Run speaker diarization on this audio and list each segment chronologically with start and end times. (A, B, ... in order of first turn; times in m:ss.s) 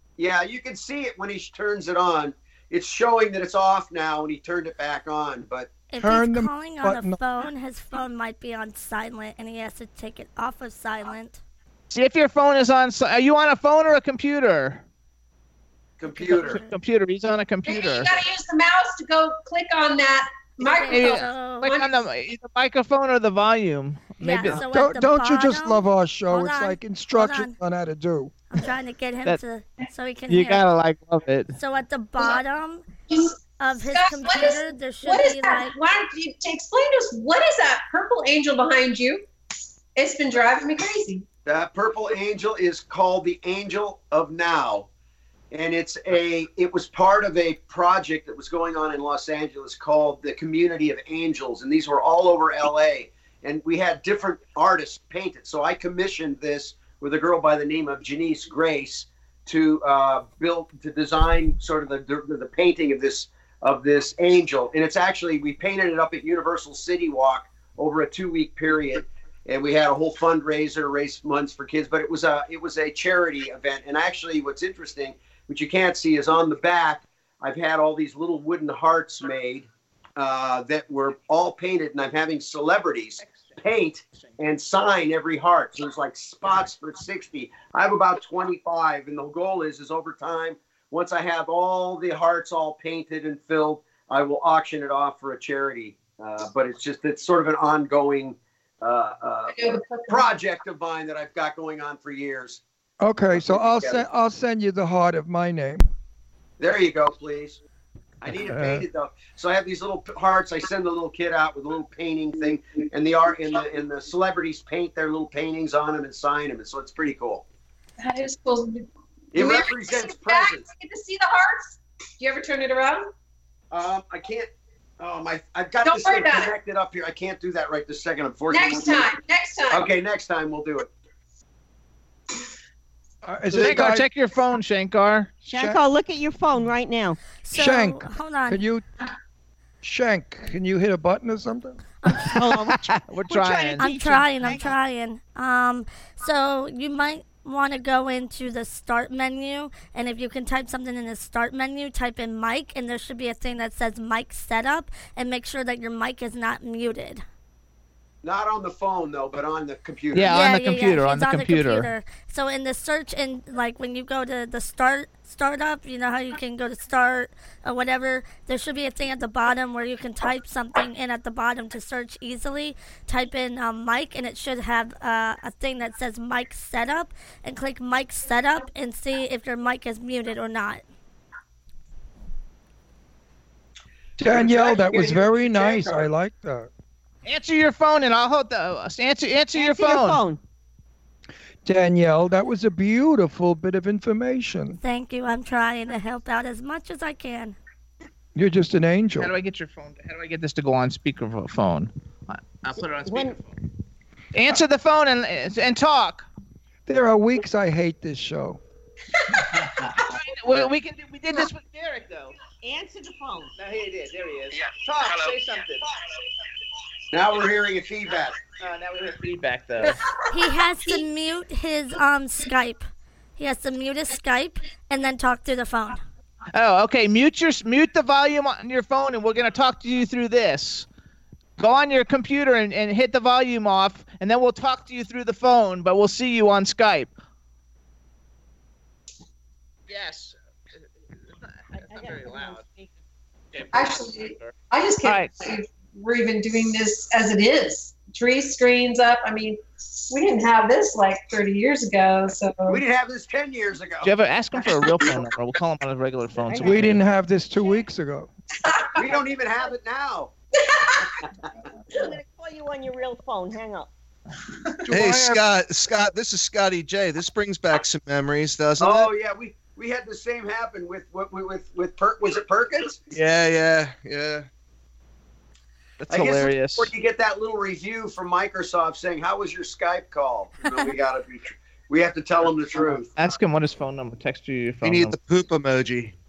0:00.2-0:05.7 A
0:05.9-0:11.4 B
0:06.0-0:07.2 C
0:11.9-0:14.8 D
0:16.0-0:16.6 A
0:16.2-0:18.2 D
0:16.2-0:16.7 B
0:17.6-0:22.0 E
0:20.6-0:21.8 B
0:20.9-0:24.6 D
0:24.2-0:27.6 B
0:24.5-0:28.3 C
0:28.5-0:30.7 B
0:30.3-0:31.6 D
0:31.5-0:32.9 B
0:33.1-0:33.4 E
0:33.5-0:35.8 B
0:33.9-0:39.2 E
0:40.0-0:41.2 E
0:41.5-0:44.9 A
0:45.5-1:42.6 A
1:39.5-1:40.3 E
1:43.0-1:45.9 C
1:43.3-1:44.0 A
1:46.6-1:47.6 A
1:48.2-1:57.4 A
1:48.3-1:48.8 C
1:58.0-2:03.1 E
1:59.3-2:00.7 A
2:03.7-2:09.1 A
2:05.8-2:06.5 E
2:08.5-2:09.9 E
2:09.7-2:10.9 A
2:13.2-2:14.1 C
2:13.5-2:15.3 D
2:15.5-2:17.2 F
2:15.5-2:15.8 C
2:17.4-2:18.6 B
2:17.5-2:18.8 C
2:19.8-2:21.8 C
2:22.3-2:24.8 F
2:23.1-2:23.9 D
2:23.8-2:37.2 B
2:38.2-2:40.4 A
2:40.1-2:41.9 D
2:40.2-3:00.8 B
3:04.2-3:06.7 C
3:04.2-3:06.1 A
3:07.2-3:10.2 D
3:09.5-3:10.4 F
3:11.6-3:14.8 C
3:14.8-3:17.6 B
3:18.4-3:19.3 C
3:19.2-3:23.5 D
3:23.1-3:23.4 F
3:24.3-3:26.3 D
3:26.9-3:28.6 C
3:30.1-3:32.3 D
3:32.6-3:33.5 F
3:33.6-3:35.8 D
3:37.1-3:38.4 A
3:38.6-3:40.0 D
3:40.3-3:46.0 B
3:46.5-3:50.9 D
3:51.6-3:57.1 D
3:59.9-4:00.4 D
4:01.7-4:02.7 D
4:01.7-4:02.9 F
4:03.5-4:05.3 D
4:03.7-4:12.8 E
4:12.7-4:14.1 A
4:14.0-4:17.0 D
4:16.5-4:16.9 F
4:16.6-4:18.3 C
4:19.0-4:20.3 A
4:21.9-4:23.9 F
4:24.8-4:25.4 C
4:24.9-4:29.1 G
4:28.8-4:33.0 A
4:33.1-4:34.5 G
4:36.0-4:36.9 D
4:36.1-4:43.1 A
4:43.2-4:45.2 D
4:44.8-4:46.1 G